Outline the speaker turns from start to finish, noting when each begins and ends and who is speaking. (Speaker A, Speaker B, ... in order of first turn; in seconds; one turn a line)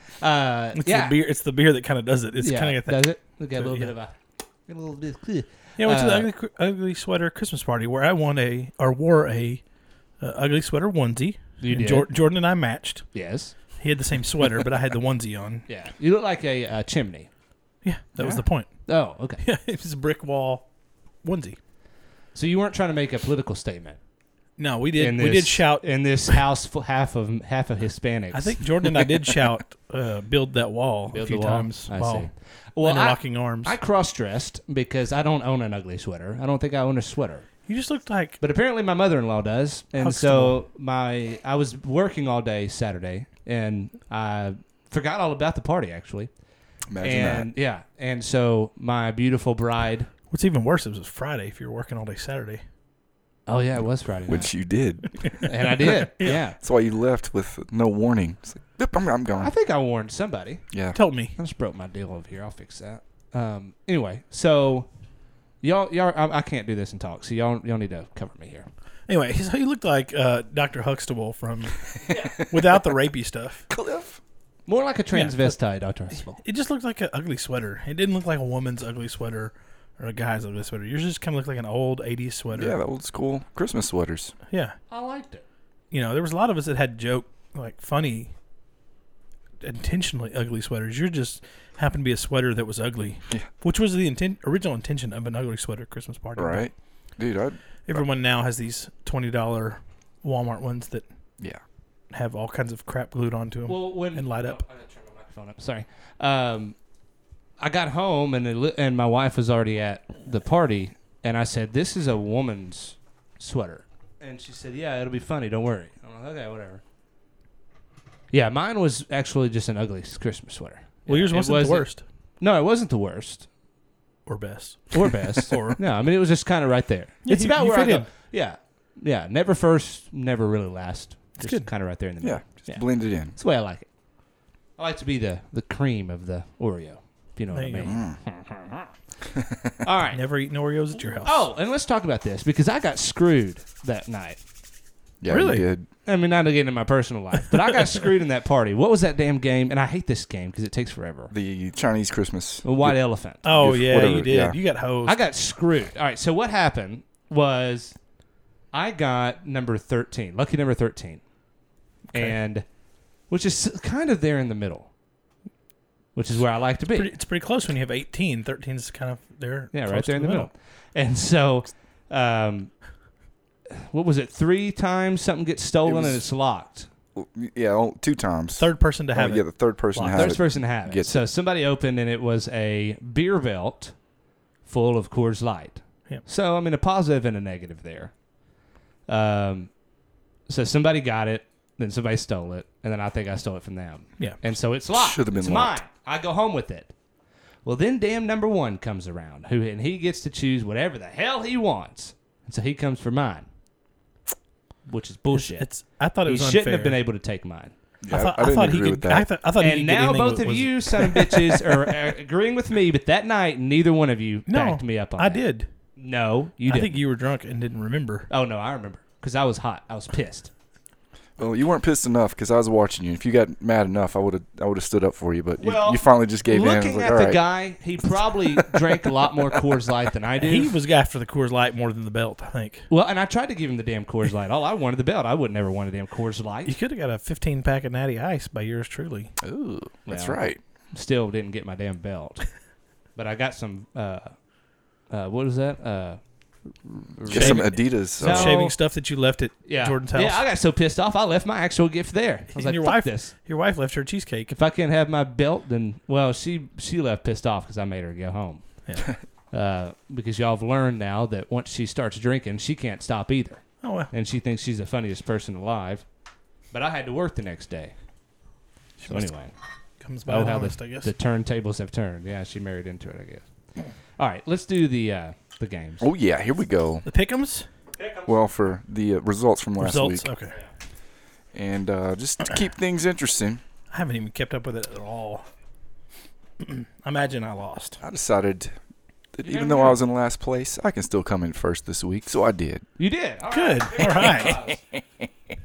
Speaker A: 0.2-1.2
Speaker B: 0.7-3.9
Speaker A: 2.4-4.1
Speaker A: 4.7-6.3
Speaker B: 5.8-9.6
Speaker B: 10.2-13.1
Speaker A: 11.6-12.1
Speaker A: 13.1-13.5
Speaker B: 13.8-15.7
Speaker A: 15.7-17.3
Speaker B: 17.8-18.9
Speaker A: 18.2-19.4
Speaker B: 19.4-20.7
Speaker B: 21.2-21.6
Speaker A: 22.3-24.0
Speaker B: 24.6-26.4
Speaker A: 25.0-28.8
Speaker B: 28.3-32.3
Speaker A: 31.1-37.5
Speaker B: 32.8-33.7
Speaker B: 37.6-38.4
Speaker A: 38.4-46.3
Speaker B: 40.0-40.6
Speaker C: 46.9-47.5
Speaker A: 47.0-50.1
Speaker B: 50.3-52.6
Speaker A: 53.5-54.5
Speaker C: 54.2-55.5
Speaker B: 55.2-56.3
Speaker A: 55.4-56.6
Speaker C: 56.2-59.5
Speaker A: 59.3-60.6
Speaker C: 60.7-61.0
Speaker B: 60.9-61.3
Speaker A: 61.4-64.9
Speaker A: 65.6-68.7
Speaker B: 69.1-73.7
Speaker C: 73.7-74.2
Speaker A: 74.7-76.4
Speaker B: 75.1-75.5
Speaker B: 76.3-82.8
Speaker C: 82.5-84.3
Speaker B: 84.5-84.8
Speaker A: 84.9-85.4
Speaker B: 85.9-88.3
Speaker B: 89.6-96.7
Speaker C: 96.3-98.0
Speaker B: 97.9-101.0
Speaker B: 102.1-104.6
Speaker A: 103.7-106.7
Speaker A: 107.6-116.8
Speaker A: 118.3-121.9
Speaker B: 121.1-122.0
Speaker A: 122.4-123.5
Speaker B: 124.2-125.8
Speaker A: 124.9-133.8
Speaker B: 127.2-128.1
Speaker B: 131.4-131.7
Speaker C: 132.2-133.3
Speaker A: 134.8-138.9
Speaker B: 137.5-137.9
Speaker C: 137.8-138.2
Speaker C: 139.3-139.7
Speaker A: 139.8-140.2
Speaker B: 140.1-141.4
Speaker A: 141.2-144.4
Speaker C: 145.2-145.9
Speaker B: 145.3-145.7
Speaker A: 146.1-151.3
Speaker C: 151.3-154.6
Speaker A: 152.6-153.4
Speaker B: 153.4-155.1
Speaker A: 155.0-157.9
Speaker A: 158.7-161.2
Speaker A: 162.1-162.6
Speaker A: 163.3-164.9
Speaker A: 166.1-167.1
Speaker B: 166.9-170.5
Speaker A: 169.7-172.8
Speaker A: 173.8-176.9
Speaker C: 175.8-176.2
Speaker C: 177.1-181.2
Speaker B: 178.6-180.3
Speaker A: 180.1-183.9
Speaker A: 184.6-188.1
Speaker A: 189.1-189.7
Speaker A: 190.5-196.9
Speaker C: 194.9-195.8
Speaker A: 197.6-203.4
Speaker A: 204.8-205.7
Speaker B: 205.3-207.0
Speaker A: 206.2-207.7
Speaker C: 208.0-209.3
Speaker B: 208.1-211.7
Speaker A: 209.6-215.4
Speaker B: 214.5-215.7
Speaker A: 216.0-216.9
Speaker B: 216.7-218.3
Speaker A: 218.3-220.5
Speaker C: 221.4-227.4
Speaker A: 225.6-230.7
Speaker B: 230.4-232.8
Speaker A: 232.9-236.7
Speaker B: 236.7-239.3
Speaker C: 239.4-240.6
Speaker A: 240.1-240.4
Speaker A: 240.9-242.5
Speaker A: 243.2-244.3
Speaker A: 245.1-246.2
Speaker A: 246.8-248.8
Speaker C: 247.2-248.6
Speaker B: 247.3-250.4
Speaker A: 249.7-253.3
Speaker B: 252.5-254.6
Speaker A: 254.5-258.6
Speaker B: 258.9-259.1
Speaker A: 259.5-266.0
Speaker B: 263.8-264.1
Speaker A: 266.7-267.9
Speaker B: 269.0-269.3
Speaker A: 269.1-269.5
Speaker B: 270.0-271.1
Speaker A: 270.3-273.4
Speaker A: 274.2-276.1
Speaker C: 276.0-277.1
Speaker B: 277.1-277.7
Speaker A: 277.9-278.4
Speaker C: 278.2-280.3
Speaker B: 279.8-280.5
Speaker C: 281.5-283.6
Speaker B: 283.9-285.4
Speaker B: 286.6-288.0
Speaker C: 288.0-288.7
Speaker C: 289.3-292.8
Speaker A: 289.5-290.0
Speaker A: 293.0-294.8
Speaker B: 293.5-294.6
Speaker C: 294.2-295.3